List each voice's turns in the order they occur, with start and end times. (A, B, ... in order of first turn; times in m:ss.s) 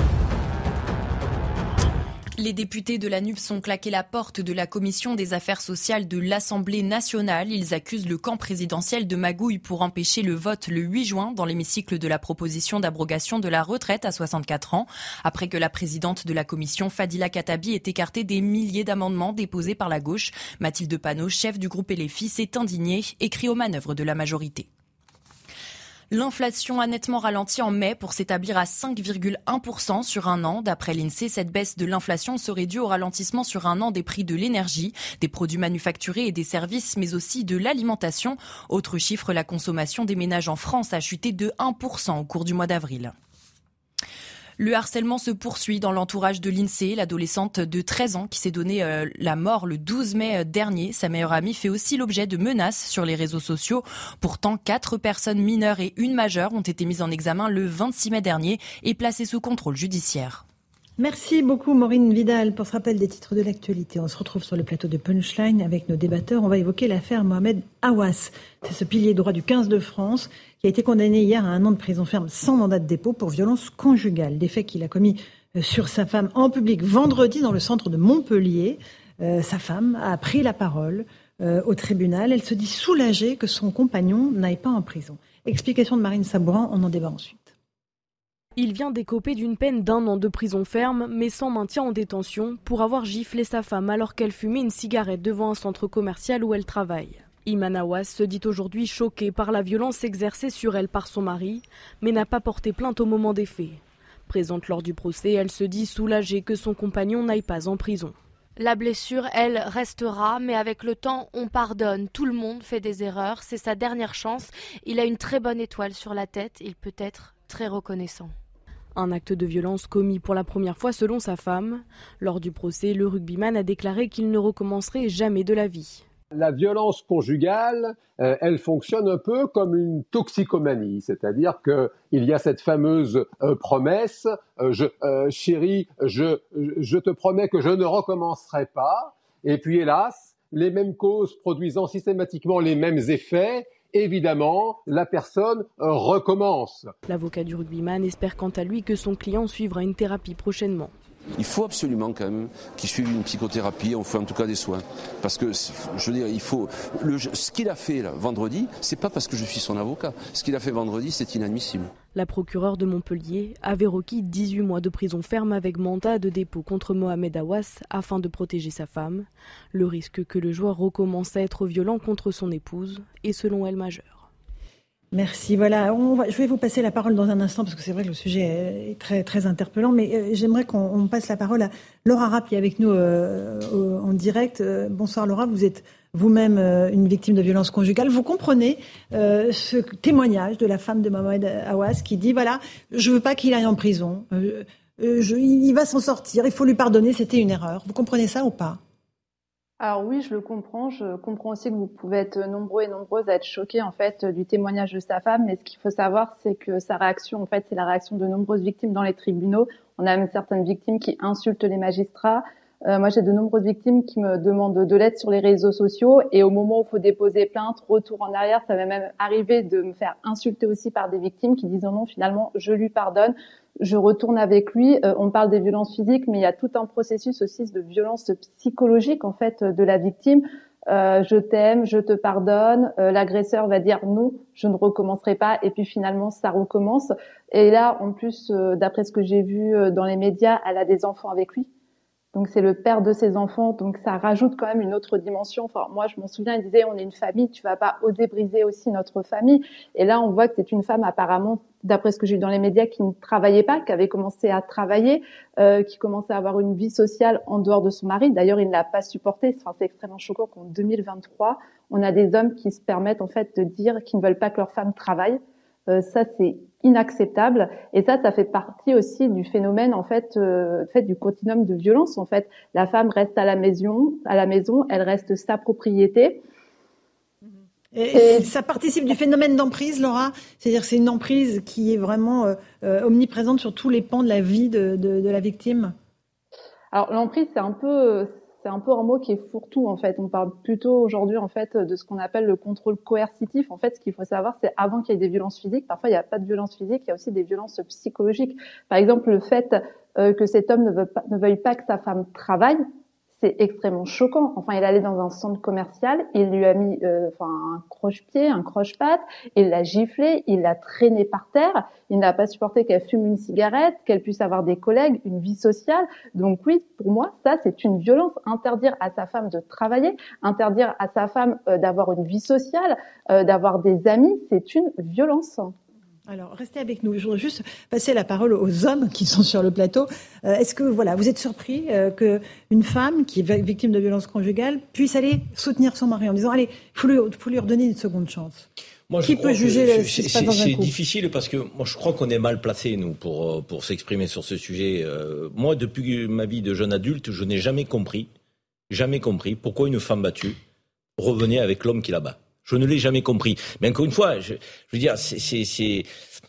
0:02.4-0:24.7 A
0:26.1-0:43.1 A
0:44.6-1:00.4 A
1:01.0-1:27.5 B
1:28.6-1:48.2 C
1:48.6-1:58.3 D
1:58.9-2:06.0 C
2:06.3-2:26.9 E
2:27.1-2:30.9 C
2:31.4-2:41.9 F
2:42.1-2:54.2 C
2:55.1-3:18.8 B
3:19.8-4:01.7 G
4:02.3-4:36.4 G
4:37.5-4:45.9 B
4:38.1-4:38.5 G
4:46.9-5:02.8 G
5:03.4-5:25.7 G
5:26.3-5:38.6 B
5:39.1-5:48.3 H
5:39.2-5:40.9 B
5:48.9-5:50.6 H
5:51.2-5:56.1 H